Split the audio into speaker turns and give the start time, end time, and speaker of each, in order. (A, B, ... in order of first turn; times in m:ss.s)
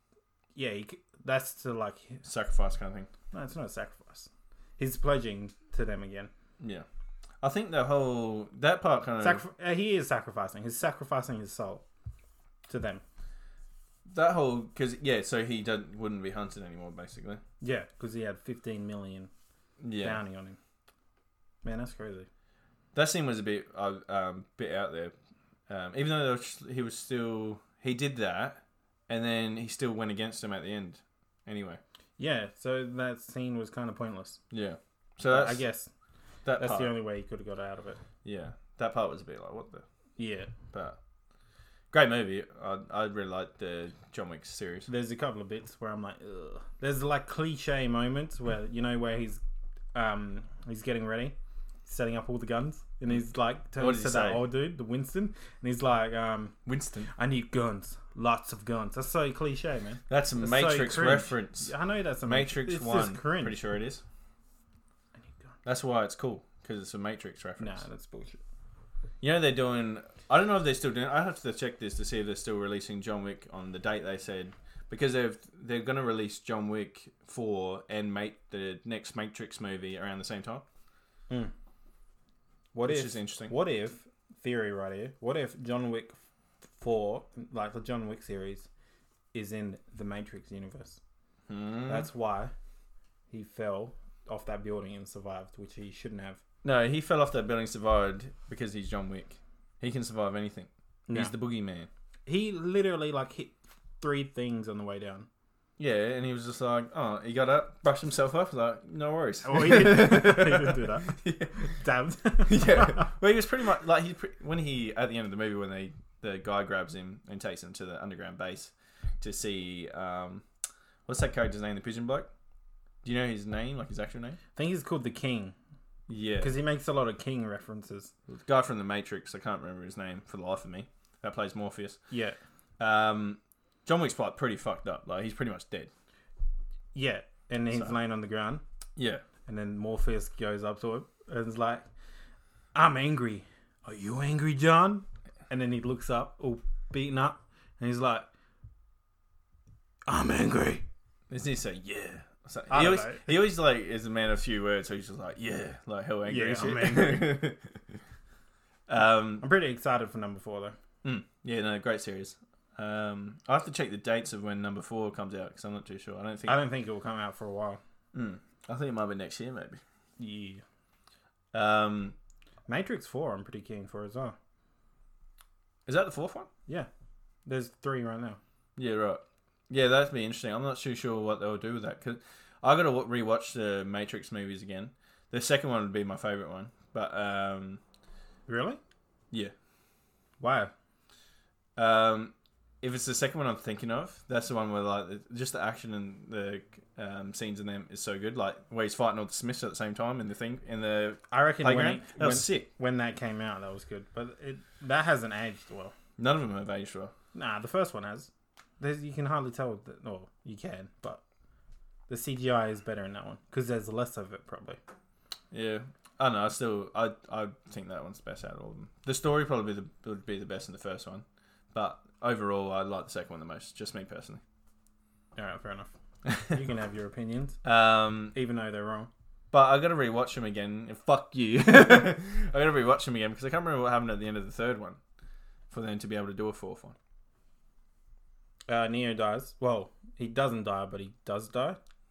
0:00.6-0:02.2 A
0:02.2-0:03.1 B
0:03.3-0:06.3 A
0:06.6-0:06.9 B
0:07.4-0:09.4 B
0:09.2-0:11.8 A
0:12.7-0:13.0 A
0:14.1-0:17.4 B
0:17.6-0:19.3 A
0:19.8-0:20.2 B
0:20.0-0:20.6 A
0:21.6-0:22.3 A
0:22.9-0:25.1 B
0:25.7-0:31.8 B
0:32.2-0:34.4 A
0:34.5-0:35.6 B
0:35.3-0:35.9 A
0:36.4-0:36.9 B
0:36.6-0:38.0 A
0:38.2-0:39.8 B
0:40.2-0:40.5 A
0:41.9-0:44.9 B
0:44.9-0:49.4 A
0:49.9-0:56.6 A
0:53.8-0:54.4 B
0:56.7-0:57.1 B
0:57.1-1:03.6 A
1:00.1-1:01.7 B
1:02.2-1:04.0 B
1:05.6-1:07.8 B
1:07.6-1:08.4 A
1:09.2-1:20.6 B
1:22.7-1:26.2 A
1:22.9-1:23.5 B
1:26.7-1:28.7 A
1:29.3-1:31.0 A
1:31.5-1:32.1 B
1:31.9-1:32.5 A
1:33.3-1:36.4 A
1:36.6-1:41.9 B
1:42.3-1:45.3 A
1:45.8-1:51.7 B
1:49.4-1:53.1 A
1:52.5-2:00.4 B
2:01.1-2:02.3 B
2:03.0-2:04.4 B
2:04.6-2:05.6 A
2:06.1-2:06.5 B
2:06.4-2:08.1 A
2:08.3-2:12.0 B
2:12.1-2:12.4 A
2:12.8-2:15.9 B
2:16.9-2:18.6 A
2:19.0-2:19.2 B
2:19.5-2:21.9 A
2:22.7-2:28.3 A
2:30.1-2:30.8 A
2:31.3-2:38.0 B
2:32.7-2:33.3 A
2:36.3-2:37.4 A
2:38.9-2:39.4 B
2:39.4-2:40.8 A
2:41.0-2:46.6 B
2:46.5-2:47.8 A
2:48.1-2:49.8 B
2:50.2-2:50.6 A
2:51.5-2:52.2 B
2:52.7-2:54.4 A
2:55.9-2:56.5 B
2:57.5-2:58.4 A
2:58.8-3:07.8 B
3:08.5-3:08.8 A
3:10.4-3:10.7 A
3:11.8-3:22.7 B
3:21.3-3:25.9 A
3:26.2-3:27.1 B
3:27.4-3:28.3 A
3:28.8-3:31.2 A
3:32.1-3:34.8 A
3:35.5-3:44.4 B
3:45.4-3:47.6 A
3:47.6-3:48.4 B
3:48.3-3:49.1 A
3:49.5-3:55.0 B
3:55.7-3:57.0 B
3:58.7-4:01.8 A